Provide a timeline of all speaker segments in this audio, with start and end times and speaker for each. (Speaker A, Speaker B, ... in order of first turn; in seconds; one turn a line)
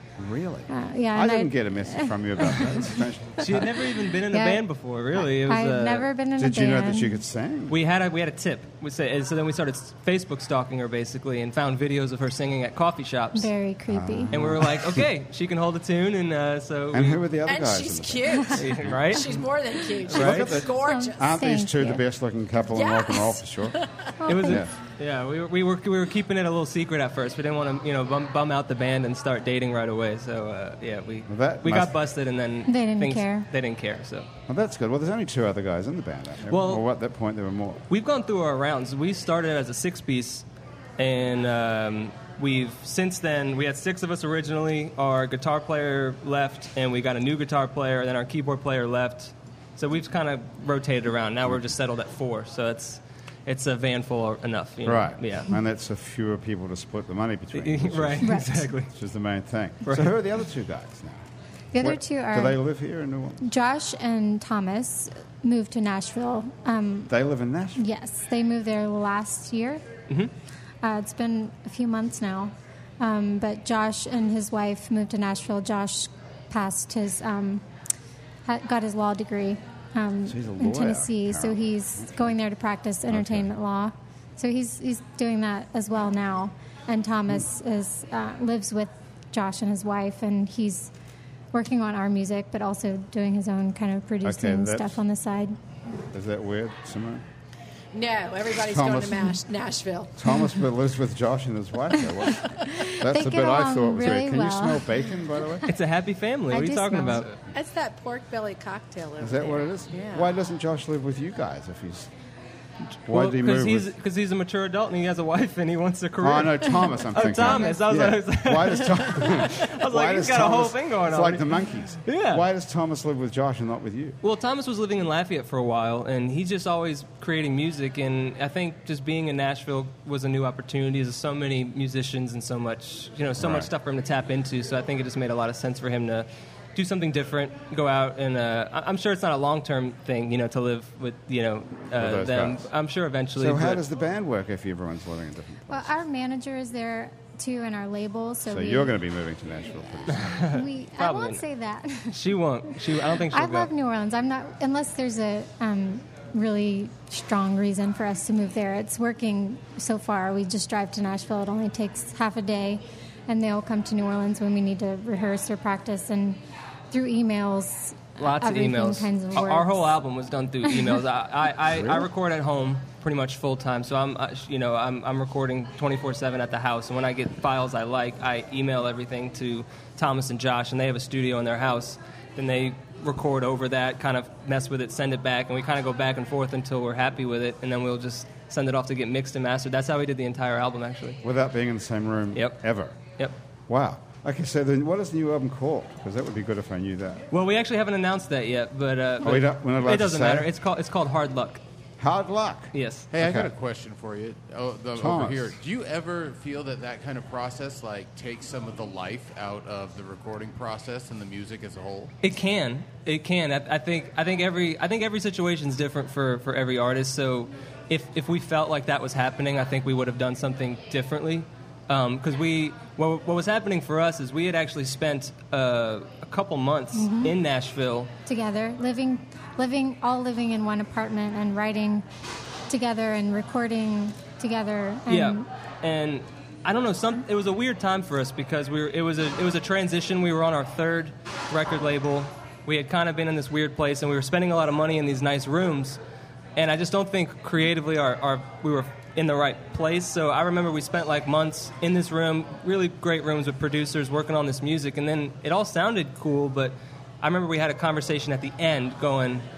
Speaker A: 0.2-3.8
Speaker B: 0.7-2.8
Speaker C: 3.4-6.1
Speaker B: 4.3-4.6
Speaker B: 5.2-7.2
Speaker A: 6.4-7.8
Speaker C: 7.7-13.5
Speaker B: 13.3-14.3
Speaker A: 13.9-15.1
Speaker C: 14.3-17.2
Speaker A: 16.9-19.4
Speaker D: 17.5-21.3
Speaker C: 18.6-19.3
Speaker C: 20.1-20.6
Speaker A: 20.1-23.8
Speaker B: 20.6-22.0
Speaker D: 22.7-24.1
Speaker B: 24.2-24.6
Speaker C: 24.3-34.3
Speaker A: 24.4-24.7
Speaker A: 31.3-31.9
Speaker B: 32.7-33.5
Speaker A: 34.5-37.8
Speaker C: 36.5-36.8
Speaker C: 37.9-40.5
Speaker C: 41.0-55.5
Speaker A: 54.8-61.2
Speaker C: 57.5-58.9
Speaker B: 58.2-58.7
Speaker C: 59.9-60.1
Speaker B: 61.7-62.6
Speaker A: 61.8-63.4
Speaker B: 63.4-67.1
Speaker A: 67.1-67.8
Speaker B: 67.8-69.8
Speaker B: 70.8-77.7
Speaker B: 78.5-90.9
Speaker A: 80.3-82.3
Speaker A: 83.1-83.5
Speaker B: 91.5-95.6
Speaker A: 94.2-95.0
Speaker A: 96.1-97.2
Speaker D: 97.9-100.2
Speaker A: 98.6-99.3
Speaker A: 100.2-105.7
Speaker B: 102.7-104.9
Speaker C: 105.7-107.3
Speaker B: 106.5-107.3
Speaker D: 107.5-110.3
Speaker A: 109.2-112.1
Speaker A: 113.0-113.9
Speaker C: 113.1-121.5
Speaker A: 116.2-124.2
Speaker B: 117.4-117.7
Speaker C: 122.1-122.4
Speaker C: 124.2-143.8
Speaker A: 133.4-133.7
Speaker A: 141.9-142.7
Speaker A: 143.4-145.9
Speaker B: 145.7-148.9
Speaker A: 148.5-150.4
Speaker C: 150.1-151.4
Speaker B: 150.5-152.3
Speaker C: 152.1-153.7
Speaker B: 153.1-166.4
Speaker B: 166.9-169.9
Speaker C: 168.2-191.2
Speaker A: 171.7-172.1
Speaker A: 191.2-193.0
Speaker A: 193.7-197.2
Speaker C: 197.3-201.6
Speaker A: 199.2-200.5
Speaker A: 202.0-203.5
Speaker C: 202.7-203.1
Speaker E: 203.1-212.1
Speaker A: 205.0-205.5
Speaker C: 212.2-228.1
Speaker B: 226.9-227.3
Speaker B: 228.3-232.1
Speaker B: 232.7-235.5
Speaker C: 235.1-246.0
Speaker C: 246.6-259.4